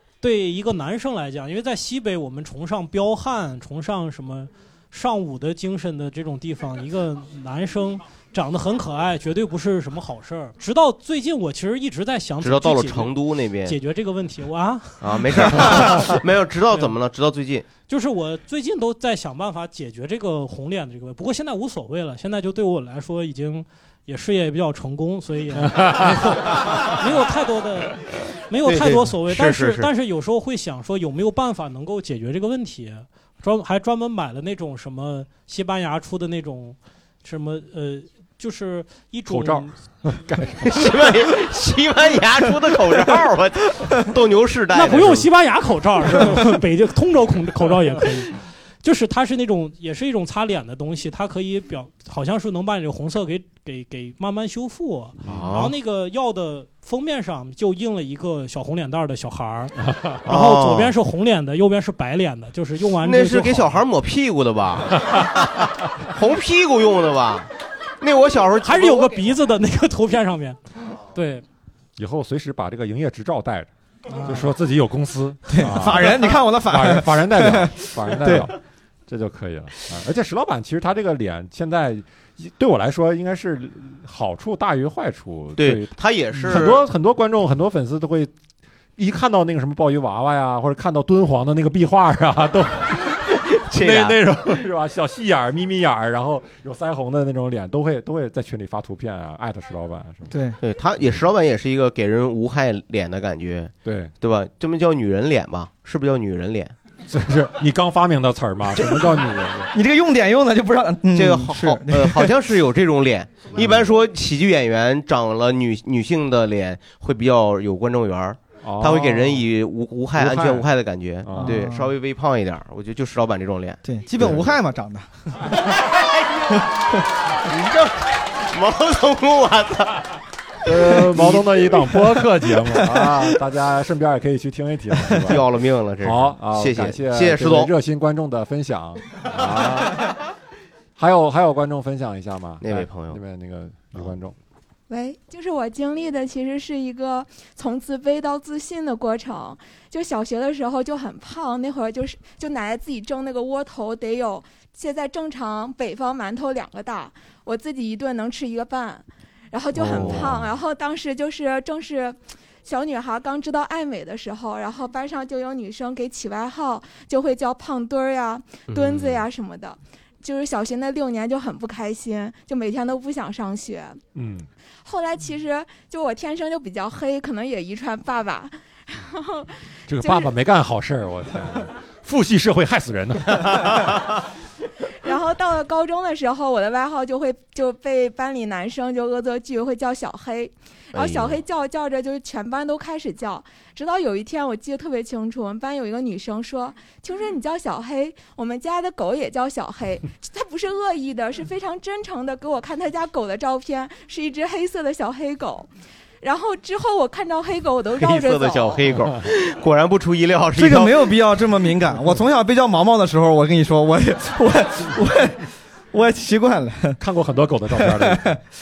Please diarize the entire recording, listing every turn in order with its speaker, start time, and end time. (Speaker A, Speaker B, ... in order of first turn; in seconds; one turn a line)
Speaker A: 0.2-16.1
Speaker B: 12.4-13.8
Speaker B: 15.0-17.7
Speaker A: 17.9-39.8
Speaker C: 25.7-26.3
Speaker B: 28.6-29.9
Speaker C: 39.3-41.0
Speaker B: 40.6-45.3
Speaker A: 44.7-63.8
Speaker C: 55.2-55.6
Speaker B: 55.2-55.7
Speaker B: 60.2-60.9
Speaker B: 63.0-67.5
Speaker B: 68.0-69.3
Speaker A: 68.6-70.6
Speaker A: 71.1-71.4
Speaker C: 72.0-73.7
Speaker A: 74.1-74.5
Speaker C: 74.2-78.5
Speaker D: 75.5-78.5
Speaker C: 79.1-88.3
Speaker B: 85.6-86.8
Speaker C: 89.0-100.3
Speaker B: 93.6-94.2
Speaker D: 100.3-100.6
Speaker B: 100.6-106.8
Speaker C: 103.8-104.1
Speaker C: 107.1-109.7
Speaker D: 109.7-112.3
Speaker B: 111.1-123.8
Speaker C: 113.6-113.9
Speaker C: 118.6-119.5
Speaker C: 120.1-120.7
Speaker C: 121.2-121.7
Speaker D: 121.3-121.9
Speaker D: 123.8-125.1
Speaker B: 127.4-130.0
Speaker C: 130.7-135.4
Speaker B: 130.7-131.4
Speaker B: 135.3-137.7
Speaker C: 136.0-140.1
Speaker C: 141.0-144.4
Speaker B: 142.6-143.2
Speaker E: 144.9-174.0
Speaker B: 159.8-160.5
Speaker C: 159.9-160.3
Speaker B: 168.7-169.3
Speaker C: 174.1-174.5
Speaker E: 174.8-180.3
Speaker C: 179.9-183.9
Speaker E: 185.0-205.7
Speaker B: 190.9-191.4
Speaker E: 206.2-208.8
Speaker B: 207.9-211.2
Speaker D: 210.6-217.0
Speaker C: 217.0-218.4
Speaker D: 217.8-218.4